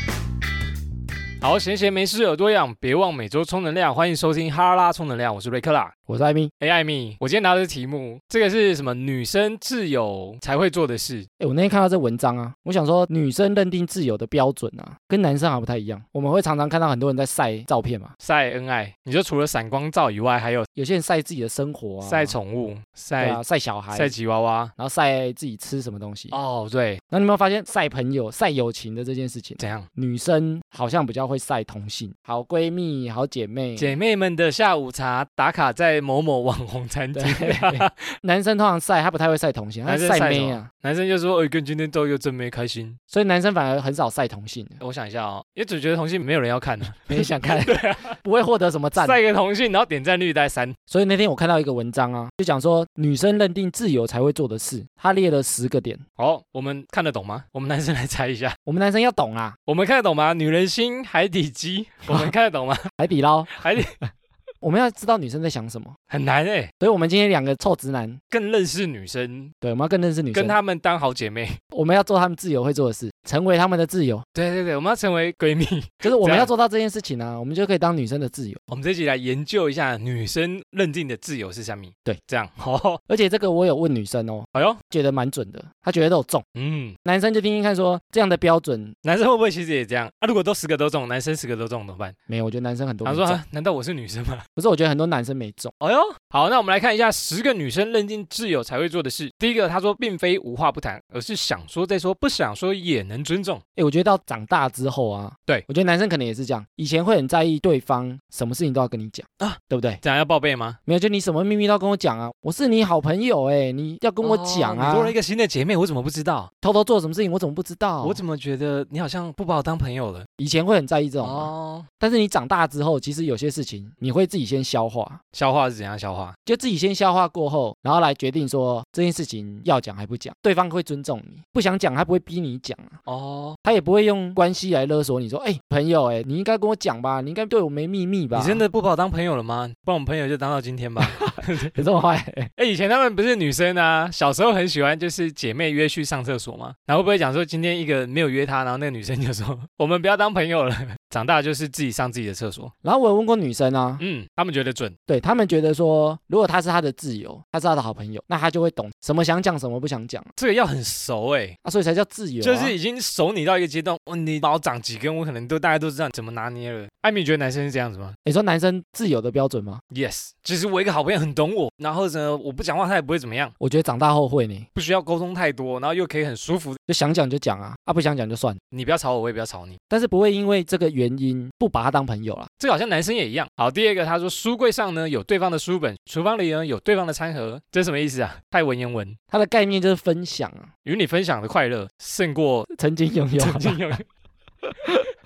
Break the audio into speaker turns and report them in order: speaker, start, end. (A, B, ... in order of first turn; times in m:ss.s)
0:01.4-0:05.9 A
0:06.1-0:06.5 B
0:06.6-0:11.3 A
0:11.4-0:18.1 B
0:18.2-0:20.7 A
0:20.8-0:22.4 B
0:22.0-0:23.4 A
0:23.2-0:24.1 B
0:23.9-0:24.7 A
0:24.8-0:26.4 B
0:26.3-0:27.0 A
0:27.1-0:34.0 B
0:29.6-0:29.9 A
0:33.8-0:38.0 A
0:37.2-0:40.7 B
0:39.9-0:43.0 A
0:43.1-0:44.8 B
0:44.8-0:48.2 A
0:47.1-0:49.2 B
0:49.0-0:50.8 A
0:50.9-0:56.0 B
0:56.2-0:58.6 A
0:58.7-0:59.6 B
0:59.7-1:02.9 A
1:03.0-1:03.6 B
1:03.5-1:03.9 A
1:04.6-1:06.0 B
1:06.1-1:06.7 A
1:06.8-1:08.2 B
1:08.3-1:09.5 A
1:09.6-1:10.6 B
1:10.3-1:11.6 A
1:11.7-1:14.2 B
1:14.4-1:16.5 A
1:16.0-1:18.6 B
1:18.7-1:23.0 A
1:23.1-1:26.4 B
1:24.5-1:24.8 A
1:26.6-1:27.0 A
1:27.0-1:29.0 B
1:29.0-1:32.2 A
1:32.3-1:33.4 B
1:33.0-1:34.5 A
1:34.6-1:35.7 B
1:35.8-1:43.6 A
1:43.8-1:50.0 B
1:49.4-1:50.8 A
1:50.9-1:55.2 B
1:54.2-1:56.5 A
1:56.6-1:58.2 B
1:58.0-2:00.3 A
2:00.4-2:05.2 B
2:01.2-2:01.9 A
2:05.3-2:06.4 A
2:06.5-2:13.0 B
2:13.1-2:13.6 A
2:13.6-2:18.6 B
2:18.3-2:21.7 A
2:21.0-2:22.5 B
2:22.6-2:32.7 A
2:32.8-2:34.0 B
2:34.0-2:35.0 A
2:35.1-2:40.3 B
2:40.4-2:41.6 A
2:41.6-2:42.8 B
2:42.4-2:48.2 A
2:48.2-2:49.8 B
2:49.9-2:53.6 A
2:53.6-2:54.7 B
2:54.8-2:56.8 A
2:56.9-2:58.6 B
2:58.7-2:59.8 A
2:59.9-3:02.5 B
3:02.6-3:09.2 A
3:09.3-3:10.7 B
3:10.8-3:12.7 A
3:12.7-3:13.9 B
3:13.4-3:14.0 A
3:14.8-3:15.1 B